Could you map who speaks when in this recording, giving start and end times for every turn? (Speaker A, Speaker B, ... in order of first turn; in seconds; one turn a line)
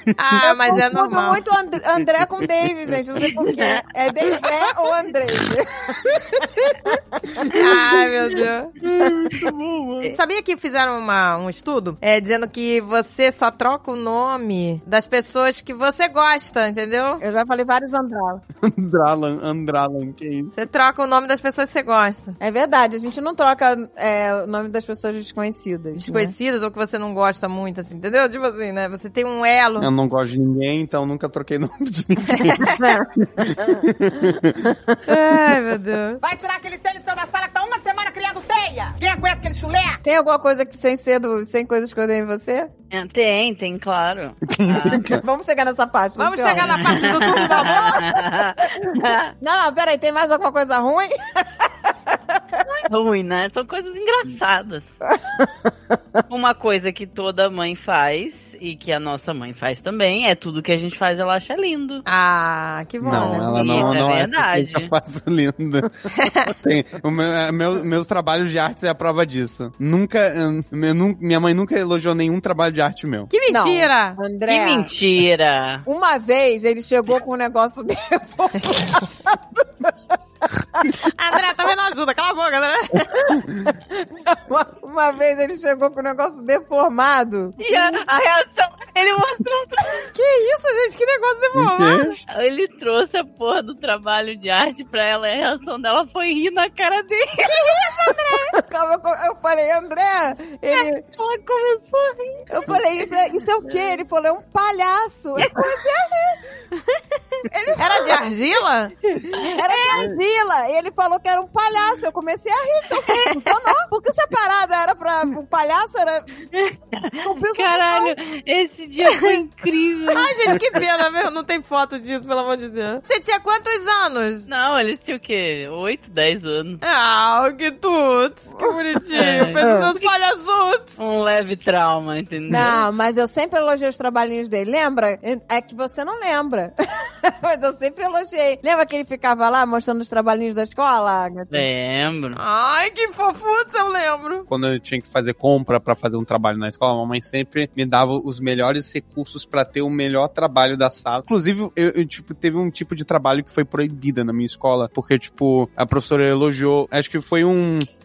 Speaker A: 0.1-1.4
Speaker B: 0.4-7.6
Speaker C: 3.5-3.8
Speaker A: 7.5-8.7
Speaker D: 8.8-10.2
Speaker A: 10.0-17.2
Speaker B: 17.2-18.4
Speaker D: 18.6-20.5
Speaker A: 20.5-22.4
Speaker B: 22.4-26.3
Speaker A: 26.0-29.9
Speaker D: 29.8-34.7
Speaker A: 32.4-32.8
Speaker B: 32.8-34.9
Speaker A: 35.0-36.2
Speaker E: 36.2-40.0
Speaker B: 40.0-42.7
Speaker C: 42.9-45.0
Speaker D: 44.5-45.2
Speaker B: 44.9-47.2
Speaker A: 46.1-48.2
Speaker C: 46.5-49.3
Speaker B: 49.4-52.6
Speaker C: 52.6-54.9
Speaker B: 55.1-55.5
Speaker C: 56.3-62.0
Speaker A: 62.0-64.0
Speaker D: 63.0-73.3
Speaker C: 63.1-64.9
Speaker A: 66.1-66.5
Speaker A: 73.3-74.2
Speaker B: 73.5-74.9
Speaker C: 74.5-75.8
Speaker B: 75.9-79.9
Speaker B: 80.4-80.9
Speaker A: 81.0-83.2
Speaker B: 83.2-87.6
Speaker C: 87.6-90.1
Speaker A: 90.0-92.2
Speaker D: 91.5-92.2
Speaker C: 92.3-97.5
Speaker A: 97.4-98.6
Speaker B: 98.5-101.0
Speaker C: 100.7-104.0
Speaker B: 102.5-106.4
Speaker A: 106.7-108.9
Speaker B: 107.5-108.2
Speaker B: 109.1-116.3
Speaker C: 109.5-110.0
Speaker C: 116.5-120.3
Speaker B: 117.2-118.1
Speaker A: 120.1-124.5
Speaker C: 124.5-126.8
Speaker A: 126.8-131.0
Speaker C: 129.1-130.1
Speaker B: 129.3-129.9
Speaker C: 131.0-132.8
Speaker B: 132.5-141.7
Speaker C: 141.5-142.4
Speaker A: 142.3-144.5
Speaker D: 144.5-157.9